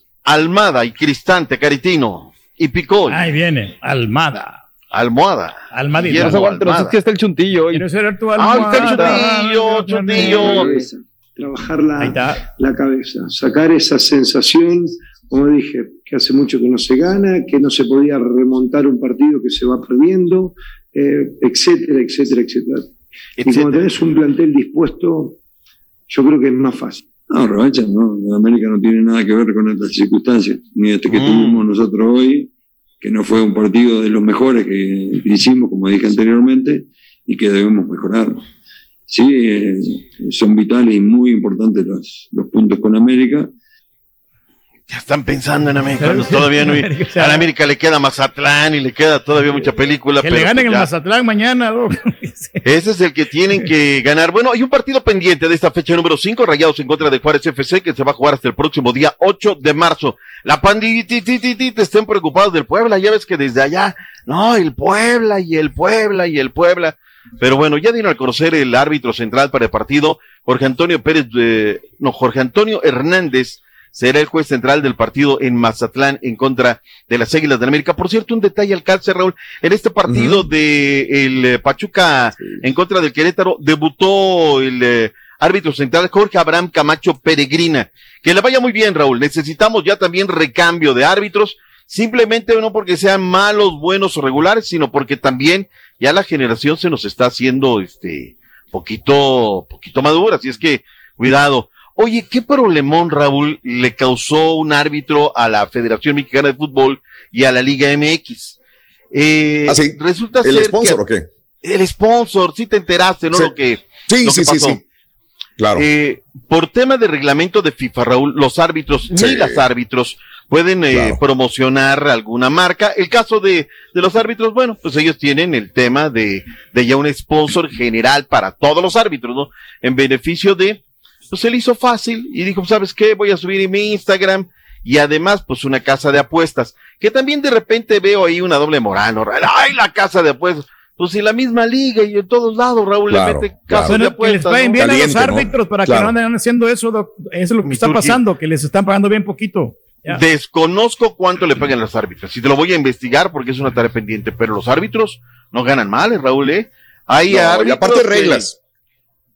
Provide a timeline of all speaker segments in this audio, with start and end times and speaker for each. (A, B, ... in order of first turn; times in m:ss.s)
0:00.2-0:03.2 A
0:03.1-0:04.6 B
0:04.9-0:07.0 A
0:05.7-0:06.4 B
0:06.1-0:07.8 C
0:07.7-0:10.5 B
0:08.4-0:10.7 A
0:08.4-0:09.4 C
0:10.2-0:10.9 C
0:10.3-0:22.8 D
0:12.0-0:12.4 B
0:23.4-0:23.8 A
0:23.4-0:25.4 D
0:26.1-0:27.0 D
0:27.3-0:38.4 E
0:31.1-0:31.6 A
0:39.1-0:43.5 E
0:44.9-0:50.9 A
0:46.0-0:47.5 B
0:50.2-0:52.6 B
0:52.6-1:48.6 A
1:20.1-1:20.5 F
1:22.4-1:22.6 F
1:49.1-1:51.0 A
1:49.7-1:51.3 F
1:51.6-1:54.8 A
1:54.1-1:54.8 F
1:55.6-1:55.9 F
1:55.8-2:25.0 A
1:59.1-1:59.7 F
2:00.9-2:01.2 F
2:23.1-2:24.0 F
2:23.9-2:30.2 B
2:24.8-2:26.2 F
2:27.7-2:28.2 A
2:30.1-2:38.5 A
2:37.3-2:38.6 F